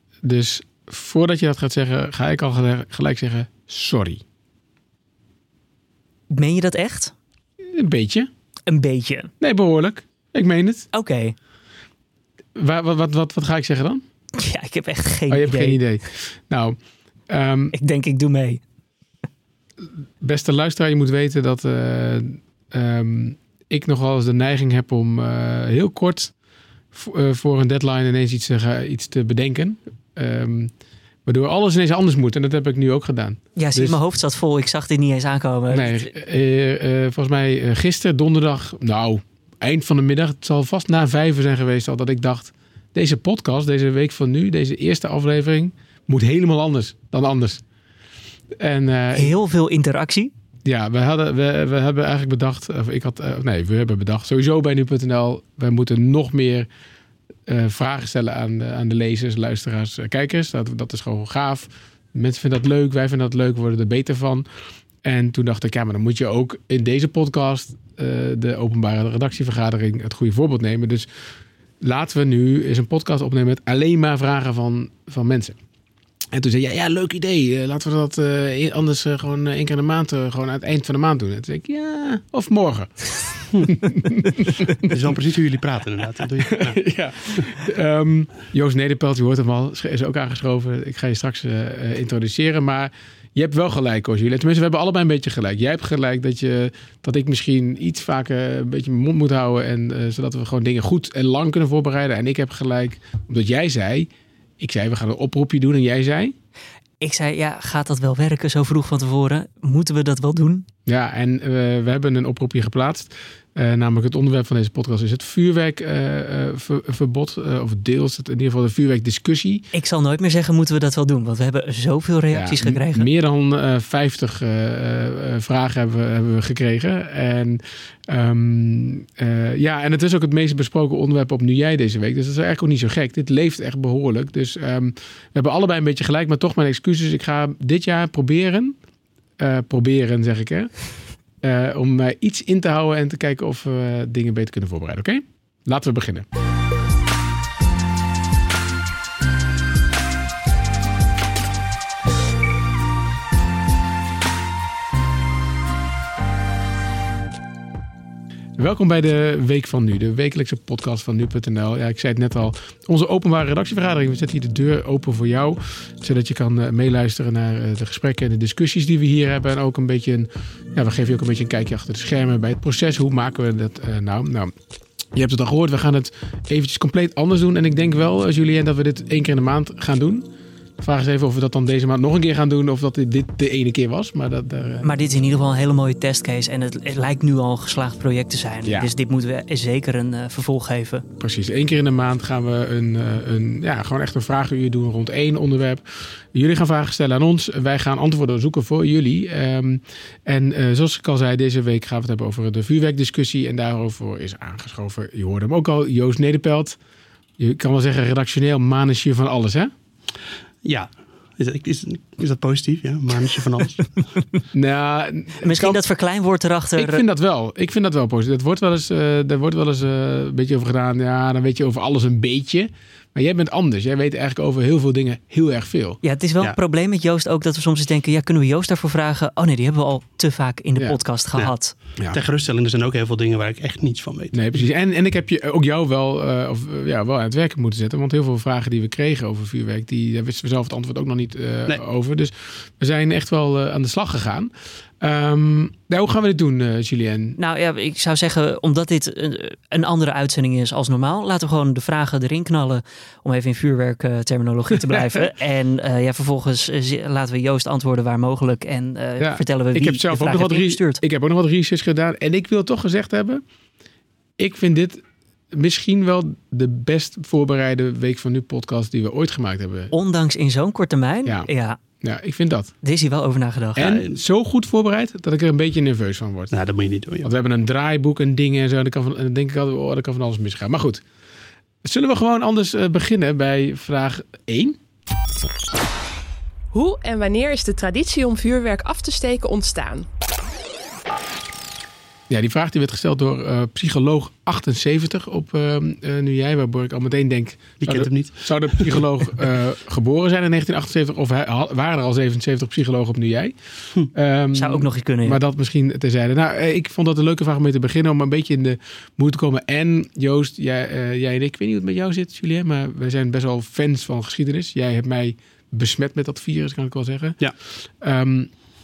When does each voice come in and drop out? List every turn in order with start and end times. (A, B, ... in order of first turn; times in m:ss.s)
0:00.2-0:04.2 A
0:06.3-0:07.1 B
0:07.8-0:08.3 A
0:08.7-0:09.3 B
0:09.4-0:10.9 A
0:10.9-0:11.4 B
0:12.6-0:14.0 A
0:14.4-0:15.8 B
0:15.3-0:16.8 A
0:17.3-0:17.8 A
0:17.7-0:18.6 B
0:20.2-0:26.3 A
0:26.9-0:30.7 A
0:31.2-0:34.0 A
0:33.6-0:36.1 B
0:35.7-0:47.6 A
0:48.6-0:49.3 A
0:49.1-0:50.3 B
0:50.7-0:56.7 A
0:57.5-1:04.5 A
1:05.0-1:11.1 A
1:11.8-1:15.6 A
1:16.3-1:24.9 A
1:24.8-1:26.8 C
1:26.5-1:46.4 A
1:47.0-1:50.7 B
1:50.9-1:59.7 A
1:59.7-2:03.1 B
2:02.3-2:18.8 A
2:19.4-2:20.7 A
2:21.4-2:26.3 A
2:38.6-2:54.5 A
2:55.1-3:00.3 A
3:00.8-3:04.9 A
3:04.8-3:11.0 B
3:08.6-3:08.9 A
3:11.2-3:26.8 A
3:27.4-3:29.7 A
3:30.6-3:33.9 C
3:34.5-3:35.8 A
3:35.4-3:37.0 B
3:36.8-3:46.0 A
3:46.0-3:51.8 B
3:52.1-3:54.4 C
3:54.3-4:07.4 A
4:07.4-4:21.0 B
4:14.9-4:15.3 A
4:19.2-4:23.4 A
4:24.4-4:25.0 A
4:25.5-4:29.9 A
4:29.9-4:31.8 B
4:32.0-4:32.7 A
4:32.8-4:34.0 B
4:33.8-4:36.5 A
4:36.5-4:37.3 C
4:37.2-4:41.0 A
4:41.8-4:44.8 A
4:46.7-4:50.1 D
4:52.3-5:03.6 A
4:57.8-4:59.0 C
5:04.1-5:18.5 A
5:04.5-5:05.4 B